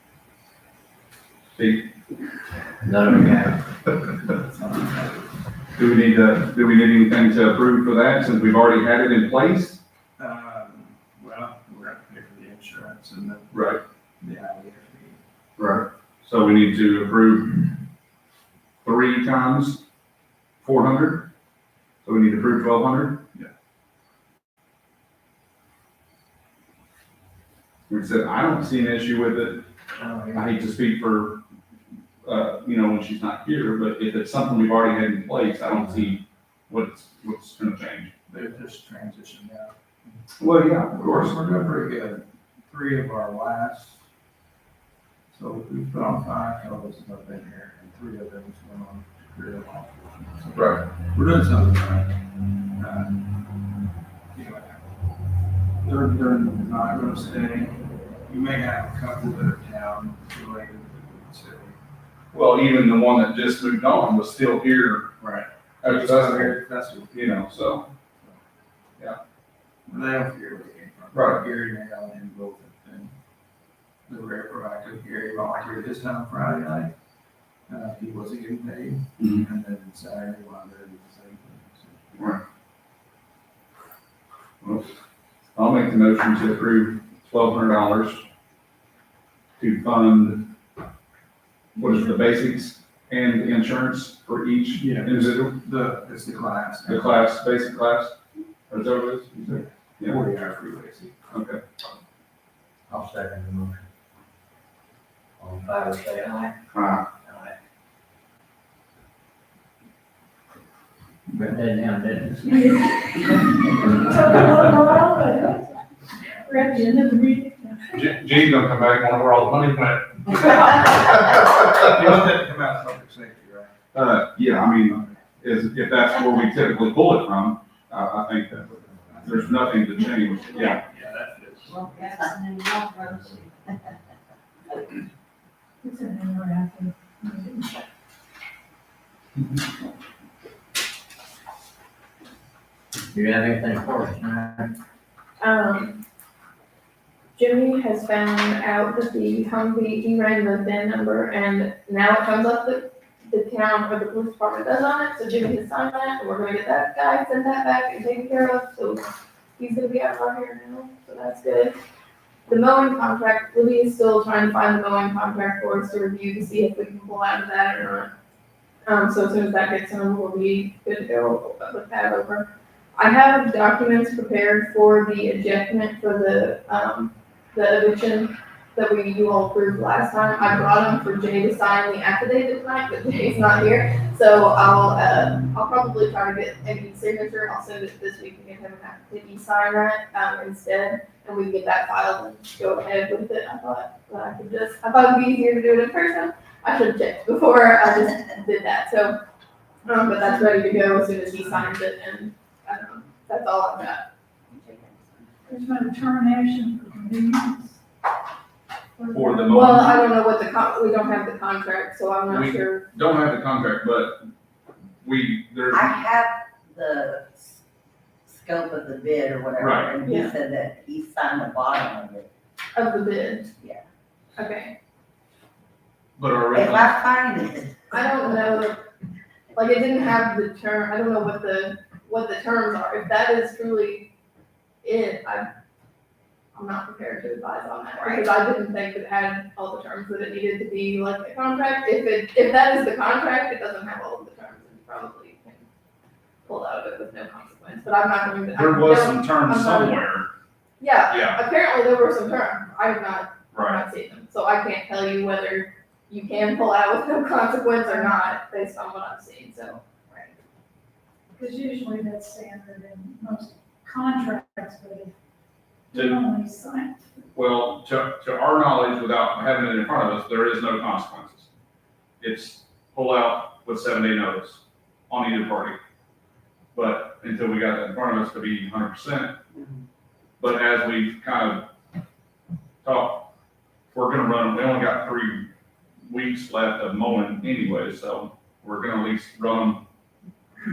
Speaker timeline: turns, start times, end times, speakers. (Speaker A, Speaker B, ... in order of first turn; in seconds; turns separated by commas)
Speaker A: 1.6-1.9, Speaker B: 2.8-3.5, Speaker C: 4.2-5.3, Speaker A: 5.8-9.8, Speaker C: 10.2-13.5, Speaker A: 13.5-13.8, Speaker C: 14.2-15.2, Speaker A: 15.6-17.6, Speaker A: 18.8-19.8, Speaker A: 20.6-21.3, Speaker A: 22.0-23.3, Speaker A: 27.9-29.6, Speaker C: 30.0-30.3, Speaker A: 30.3-31.4, Speaker A: 32.2-38.1, Speaker C: 38.3-40.2, Speaker A: 40.4-41.4, Speaker C: 40.9-44.0, Speaker C: 45.3-52.1, Speaker A: 50.5-50.8, Speaker C: 52.8-53.2, Speaker C: 54.3-54.8, Speaker C: 55.8-61.8, Speaker A: 62.3-65.1, Speaker C: 65.2-67.4, Speaker A: 65.8-66.5, Speaker A: 67.1-67.9, Speaker C: 69.9-73.1, Speaker A: 71.1-71.4, Speaker C: 74.1-76.9, Speaker C: 77.7-82.1, Speaker A: 79.2-79.4, Speaker A: 82.2-82.4, Speaker A: 84.6-84.9, Speaker A: 85.5-88.2, Speaker A: 89.6-90.5, Speaker A: 91.8-95.6, Speaker C: 94.8-97.2, Speaker A: 96.9-98.1, Speaker A: 98.7-100.2, Speaker C: 99.3-101.2, Speaker A: 101.3-101.6, Speaker B: 102.9-103.8, Speaker B: 105.4-106.5, Speaker A: 106.7-107.1, Speaker B: 111.4-112.5, Speaker D: 112.5-115.7, Speaker D: 116.4-118.0, Speaker A: 117.9-121.4, Speaker C: 121.6-123.7, Speaker A: 123.9-128.7, Speaker C: 124.8-125.1, Speaker C: 128.7-129.5, Speaker A: 129.2-130.8, Speaker C: 130.7-132.0, Speaker E: 131.7-133.9, Speaker D: 135.8-137.7, Speaker B: 143.1-144.7, Speaker F: 145.4-146.0, Speaker F: 147.3-161.8, Speaker F: 162.5-168.1, Speaker F: 168.8-199.2, Speaker F: 199.8-205.0, Speaker D: 205.5-207.8, Speaker D: 209.0-210.0, Speaker A: 209.1-210.0, Speaker F: 209.5-212.8, Speaker A: 212.3-214.2, Speaker A: 215.0-215.9, Speaker E: 215.7-217.6, Speaker E: 218.3-222.3, Speaker A: 219.6-219.9, Speaker F: 220.1-220.3, Speaker F: 222.7-223.5, Speaker F: 224.3-224.7, Speaker A: 226.2-227.0, Speaker E: 226.5-228.4, Speaker F: 227.9-228.8, Speaker F: 229.5-234.1, Speaker F: 234.8-235.5, Speaker F: 236.5-245.6, Speaker E: 238.0-238.3, Speaker F: 246.4-250.0, Speaker A: 248.5-250.3, Speaker F: 250.8-259.8, Speaker A: 251.1-251.4, Speaker A: 253.5-253.8, Speaker D: 261.4-265.1, Speaker D: 265.9-267.1, Speaker A: 265.9-266.2, Speaker A: 267.3-271.5, Speaker A: 272.2-275.8, Speaker A: 276.7-279.4, Speaker A: 280.4-281.7, Speaker A: 282.8-283.3, Speaker A: 283.9-285.5, Speaker A: 286.1-289.8